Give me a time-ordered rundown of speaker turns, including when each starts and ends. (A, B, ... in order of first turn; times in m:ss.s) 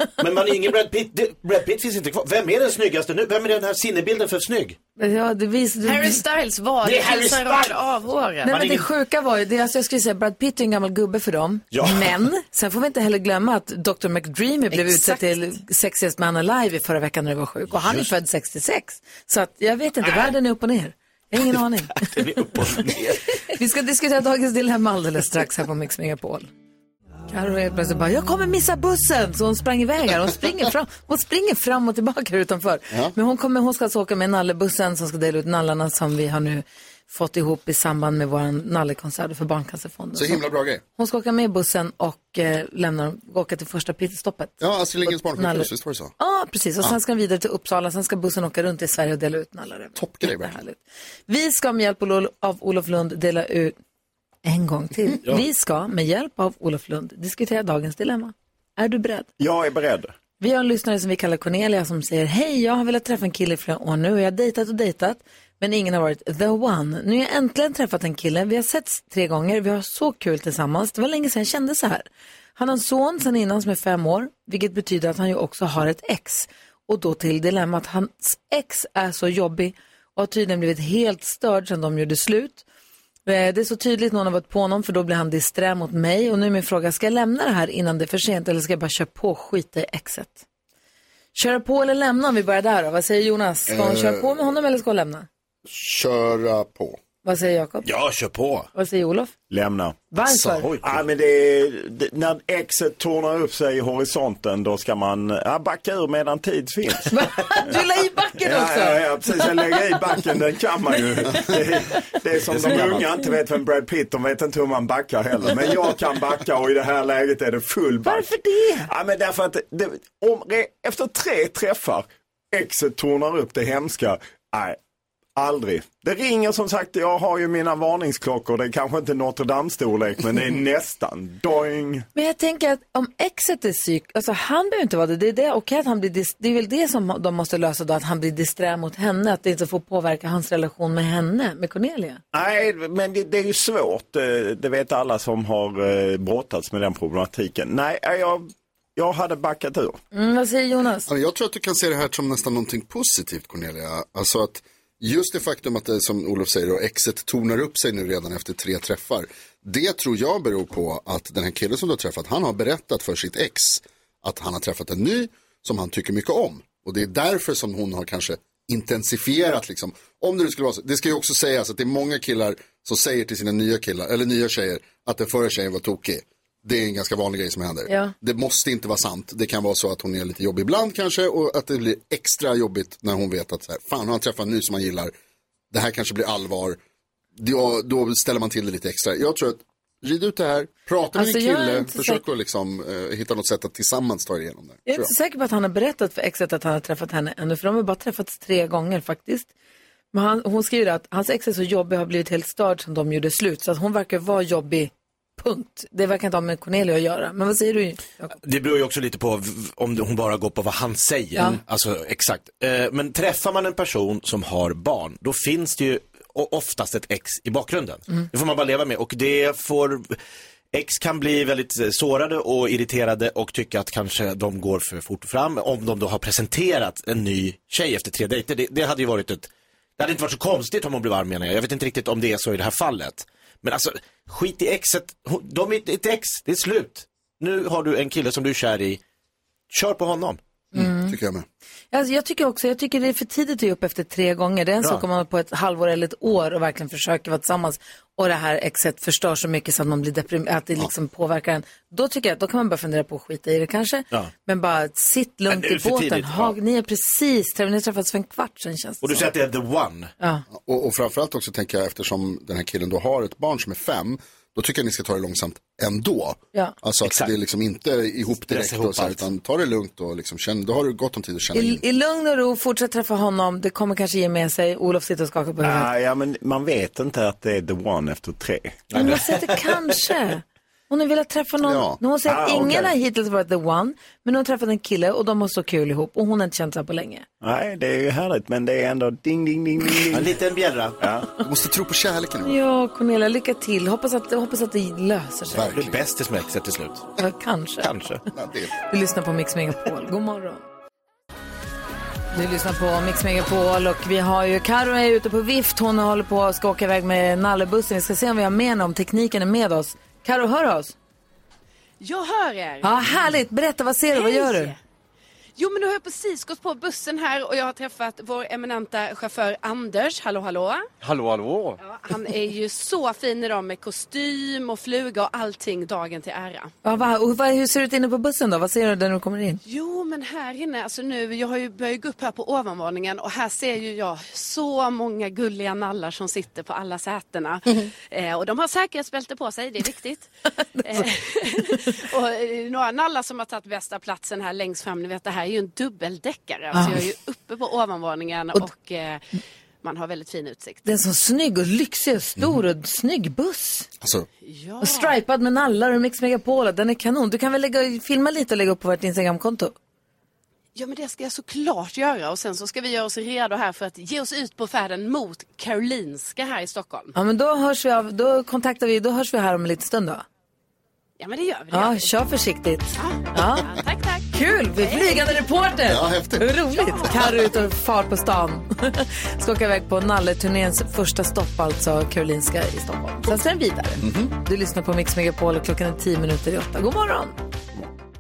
0:00.2-0:04.8 A
0:05.0-0:06.2 B
0:05.8-0:08.8 C
0:06.8-0:07.8 A
0:08.4-0:22.2 B
0:11.7-0:12.1 A
0:14.7-0:15.2 C
0:17.7-0:18.1 A
0:22.0-0:23.2 A
0:23.5-0:26.5 B
0:27.3-0:40.4 B
0:40.2-0:40.8 D
0:41.0-0:53.8 B
0:44.6-0:46.1 D
0:50.0-0:50.6 D
0:54.4-0:59.3 B
0:59.4-1:00.1 E
1:00.4-1:22.6 B
1:23.2-1:30.4 B
1:31.4-1:35.3 B
1:33.7-1:34.3 D
1:35.6-1:37.0 D
1:37.2-1:37.9 B
1:37.8-1:38.7 A
1:38.7-1:39.3 B
1:39.5-1:40.1 E
1:40.1-1:40.7 B
1:40.4-1:41.0 A
1:40.8-1:47.2 E
1:47.1-1:49.0 B
1:48.4-2:04.8 E
1:52.5-1:53.0 A
1:58.0-1:58.9 B
2:05.4-2:12.0 E
2:12.1-2:22.2 B
2:22.3-2:30.0 E
2:30.1-2:31.1 B
2:31.1-3:05.1 D
2:57.9-2:58.1 B
3:05.7-3:06.8 D
3:07.4-3:15.1 D
3:11.1-3:12.2 B
3:14.9-3:19.5 B
3:20.1-3:28.4 B
3:28.4-3:40.2 A
3:40.7-3:59.0 A
3:59.7-4:00.4 A
4:00.7-4:01.2 B
4:00.8-4:01.4 D
4:01.9-4:19.3 B
4:15.5-4:16.6 A
4:19.0-4:20.1 A
4:20.6-4:31.8 D
4:27.0-4:27.3 A
4:28.4-4:29.3 A
4:31.5-4:35.9 B
4:35.6-4:38.9 E
4:38.9-4:39.6 A
4:38.9-4:47.2 B
4:41.6-4:42.0 D
4:42.2-4:42.9 E
4:47.4-4:50.3 E
4:50.1-4:51.0 A
4:51.0-4:51.3 E
4:51.4-4:52.6 D
4:52.4-4:55.7 B
4:55.5-4:56.0 D
4:55.7-4:57.1 A
4:57.2-4:57.9 B
4:57.8-4:58.2 A
4:58.3-4:58.7 D
4:58.8-5:00.6 B
5:02.3-5:10.9 B
5:12.0-5:13.2 C
5:12.8-5:14.7 B
5:14.1-5:14.8 C
5:15.6-5:20.9 C
5:21.0-5:21.8 A
5:21.8-5:26.7 C
5:26.8-5:29.6 B
5:29.6-5:49.2 C
5:40.8-5:41.0 B
5:46.7-5:47.0 B
5:49.8-5:50.9 C
5:50.8-5:53.9 B
5:54.0-5:54.3 D
5:54.4-5:55.2 C
5:54.8-5:59.7 B
6:00.8-6:07.1 C
6:07.1-6:10.2 B
6:11.2-6:12.1 C
6:11.7-6:13.7 B
6:13.0-6:15.2 C
6:14.3-6:27.4 B
6:15.9-6:17.1 D
6:16.8-6:17.2 C
6:24.0-6:24.3 D